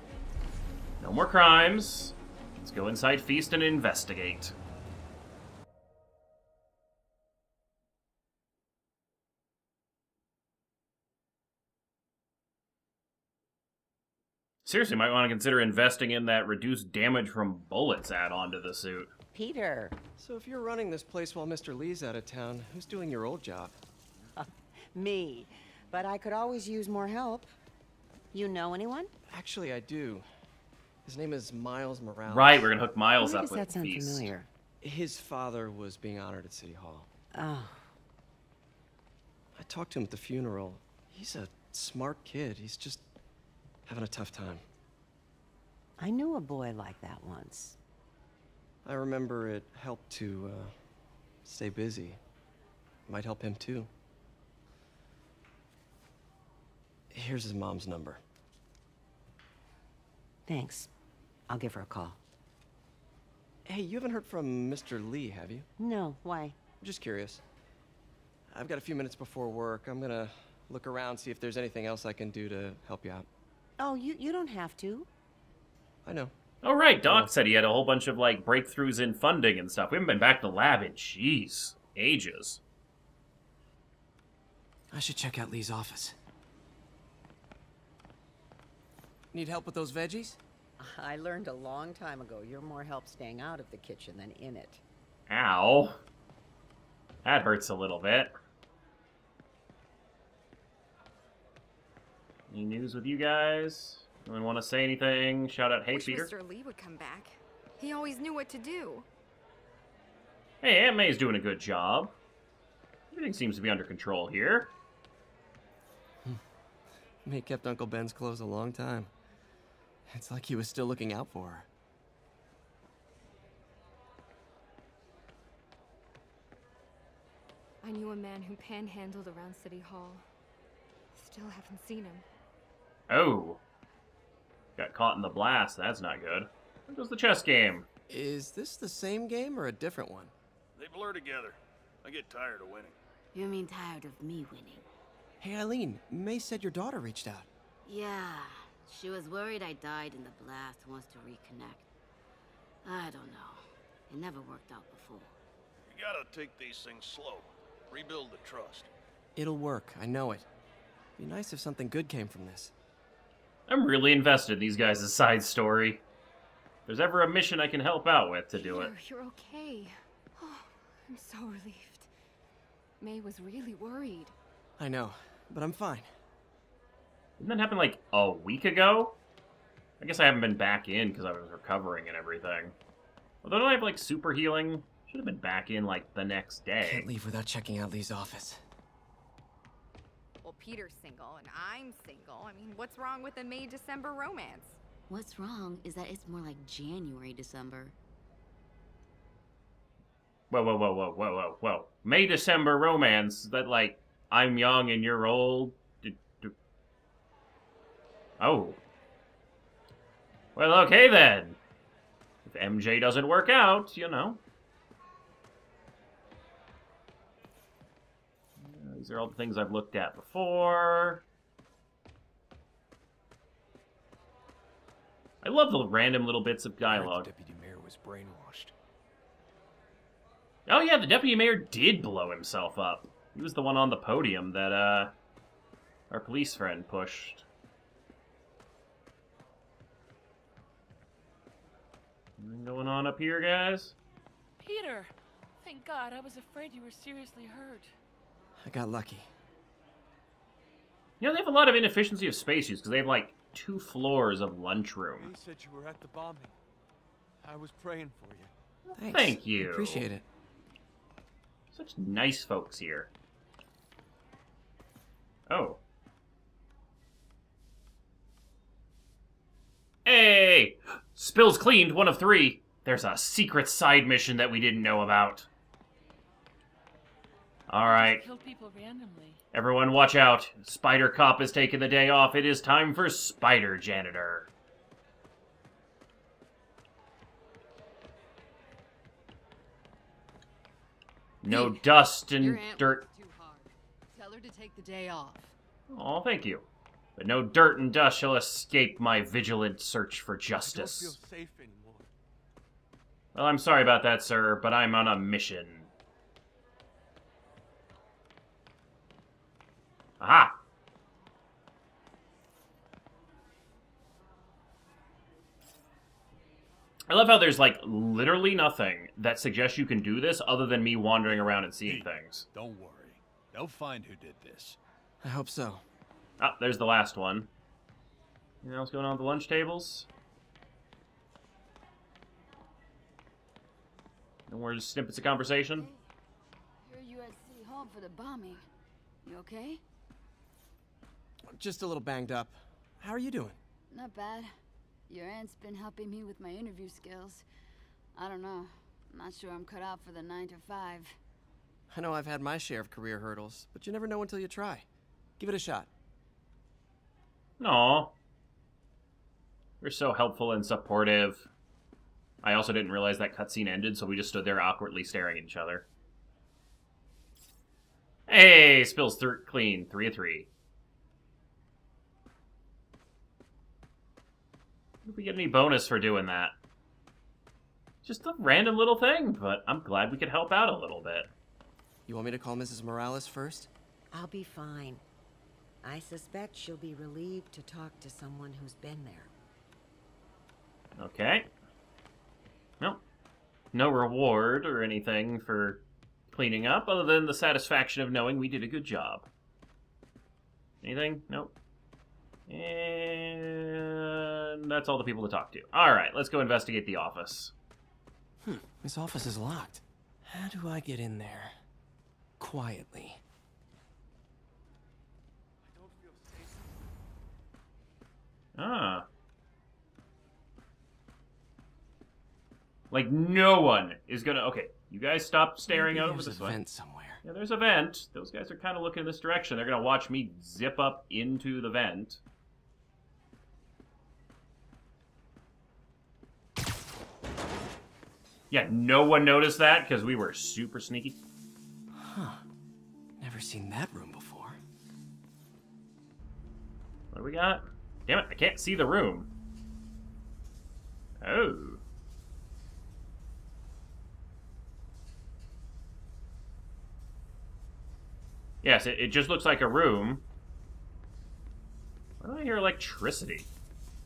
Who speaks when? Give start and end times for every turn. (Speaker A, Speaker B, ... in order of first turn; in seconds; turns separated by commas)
Speaker A: 1.0-4.5, Speaker A: 14.7-19.1, Speaker B: 19.3-20.0, Speaker C: 20.2-23.8, Speaker B: 24.4-27.5, Speaker B: 28.3-29.1, Speaker C: 29.3-30.2, Speaker C: 31.1-32.7, Speaker A: 32.3-34.3, Speaker B: 33.2-34.5, Speaker C: 34.8-37.1, Speaker B: 37.3-37.9, Speaker C: 39.5-43.1, Speaker C: 43.9-44.6, Speaker B: 46.0-47.8, Speaker C: 48.8-50.8, Speaker C: 51.5-52.2, Speaker C: 53.1-53.9, Speaker C: 57.1-58.2, Speaker B: 60.5-60.9, Speaker B: 61.5-62.2, Speaker C: 63.7-65.7, Speaker B: 65.8-66.6, Speaker C: 66.8-67.4, Speaker C: 68.5-73.3, Speaker B: 73.8-75.1, Speaker C: 76.0-76.3, Speaker A: 76.6-82.6, Speaker C: 77.0-77.3, Speaker C: 84.9-86.2, Speaker C: 89.3-90.4, Speaker B: 90.8-94.8, Speaker A: 95.3-96.0, Speaker A: 97.2-98.3, Speaker A: 102.5-106.3, Speaker D: 105.9-109.1, Speaker A: 110.6-112.2, Speaker A: 113.1-114.7, Speaker C: 117.2-119.1, Speaker C: 120.1-121.7, Speaker D: 127.8-130.2, Speaker D: 131.1-132.2, Speaker A: 133.1-133.6, Speaker A: 134.8-137.9, Speaker C: 138.1-140.3, Speaker E: 140.8-142.9, Speaker F: 143.3-144.9, Speaker C: 145.4-147.5, Speaker F: 147.9-151.9, Speaker F: 152.8-155.3, Speaker E: 155.9-158.9, Speaker C: 159.4-160.5, Speaker C: 161.2-162.7, Speaker A: 163.7-166.0, Speaker A: 166.9-168.9, Speaker D: 168.5-172.1, Speaker D: 173.0-174.3, Speaker C: 174.8-176.1, Speaker A: 177.4-179.2, Speaker A: 180.0-182.8, Speaker A: 183.4-187.1, Speaker C: 186.8-188.6, Speaker D: 190.4-194.8, Speaker F: 195.1-198.0, Speaker A: 200.5-206.5, Speaker A: 208.4-208.8, Speaker A: 210.6-211.6, Speaker A: 212.5-214.4, Speaker A: 218.6-221.2, Speaker A: 225.4-227.3, Speaker C: 226.9-228.7, Speaker A: 230.7-235.1, Speaker A: 236.1-237.4, Speaker A: 242.4-243.9, Speaker G: 244.6-247.9, Speaker C: 248.6-249.3, Speaker A: 251.2-255.3, Speaker H: 255.2-256.5, Speaker H: 257.4-258.5, Speaker C: 258.9-260.2, Speaker A: 259.0-260.1, Speaker A: 261.7-263.1, Speaker A: 265.5-265.8, Speaker A: 270.1-275.5, Speaker A: 277.7-278.2, Speaker G: 277.8-279.4, Speaker A: 279.5-284.5, Speaker A: 291.4-293.1, Speaker I: 291.5-291.9, Speaker I: 292.4-295.6, Speaker A: 295.9-301.2, Speaker H: 300.6-302.1, Speaker A: 303.4-305.9, Speaker A: 310.2-310.6, Speaker A: 317.1-322.5, Speaker H: 322.7-323.1, Speaker C: 325.2-325.8, Speaker A: 326.4-327.5, Speaker A: 328.6-330.1, Speaker A: 334.5-335.9, Speaker I: 335.7-336.0, Speaker I: 336.8-338.6, Speaker I: 339.2-339.8, Speaker C: 341.5-343.6, Speaker I: 343.9-344.5, Speaker I: 345.1-347.4, Speaker I: 348.1-351.1, Speaker C: 351.9-354.9, Speaker C: 355.4-355.9, Speaker A: 357.6-358.1, Speaker A: 359.8-361.5, Speaker A: 362.4-365.9, Speaker A: 368.3-370.5, Speaker A: 375.1-376.5, Speaker A: 378.0-381.3, Speaker C: 382.1-383.7, Speaker B: 384.1-385.0, Speaker B: 385.8-389.3, Speaker A: 391.0-391.5, Speaker A: 393.7-399.3, Speaker A: 400.8-401.5, Speaker A: 402.5-407.5, Speaker C: 408.4-411.6, Speaker C: 412.4-413.2, Speaker H: 415.8-416.5, Speaker A: 418.6-419.1, Speaker A: 422.9-426.6, Speaker C: 425.7-427.2, Speaker A: 427.2-432.2, Speaker A: 438.5-441.2, Speaker C: 441.9-442.4, Speaker C: 443.2-444.6, Speaker A: 447.1-449.3, Speaker A: 451.2-451.8, Speaker A: 458.6-460.2, Speaker A: 462.2-463.5